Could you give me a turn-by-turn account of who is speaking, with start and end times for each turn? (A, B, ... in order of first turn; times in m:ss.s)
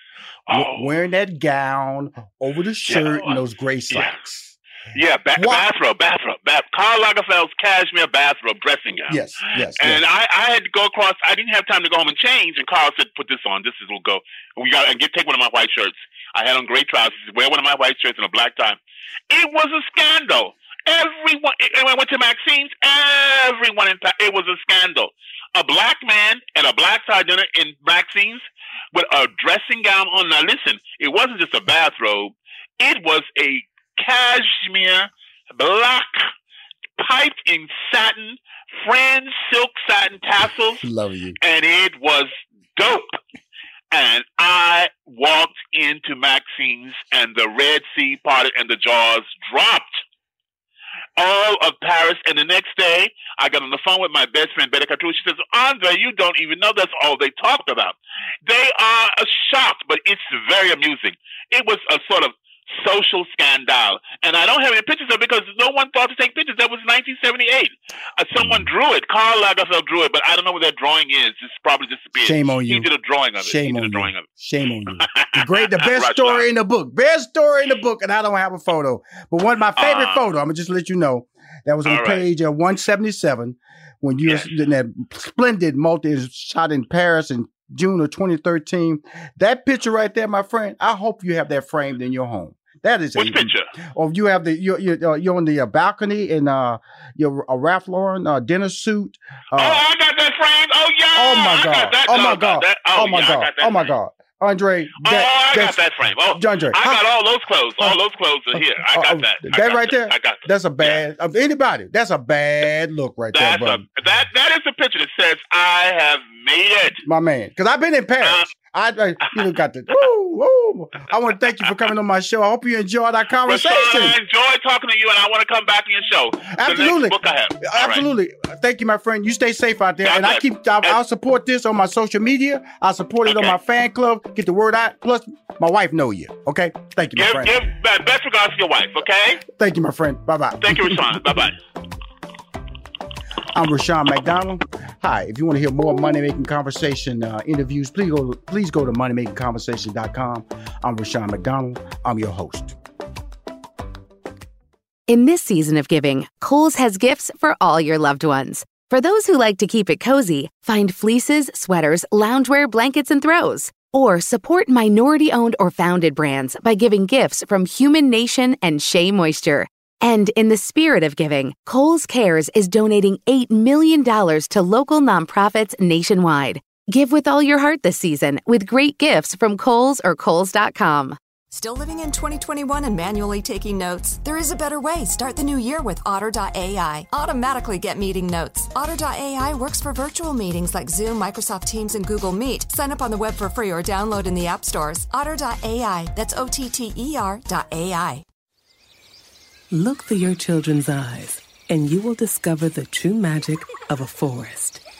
0:00.5-0:00.9 A
0:00.5-0:04.6 B
0:02.8-0:04.2 A
0:04.9-0:18.8 A
0:05.4-0:05.7 B
0:09.1-0:10.0 B
0:19.3-0:36.3 A
0:37.0-0:40.8 A
0:40.8-0:41.4 B
0:41.4-0:43.2 A
0:43.9-0:50.0 A
0:51.2-1:14.3 A
1:08.4-1:08.7 B
1:12.2-1:39.8 B
1:15.0-1:16.5 A
1:19.8-1:20.2 A
1:21.8-1:22.2 A
1:33.2-1:33.7 A
1:39.6-1:43.9 A
1:41.1-1:47.0 B
1:45.0-1:51.0 A
1:48.5-1:53.8 B
1:53.3-1:57.0 A
1:57.0-2:04.2 B
1:58.2-1:58.5 A
2:03.4-2:08.0 A
2:06.5-2:17.7 B
2:10.0-2:11.0 A
2:13.2-2:13.6 A
2:17.1-2:19.4 A
2:19.4-2:21.4 B
2:20.6-2:21.6 A
2:23.5-2:32.8 B
2:35.1-3:01.2 C
3:01.5-3:18.2 D
3:19.7-3:24.8 E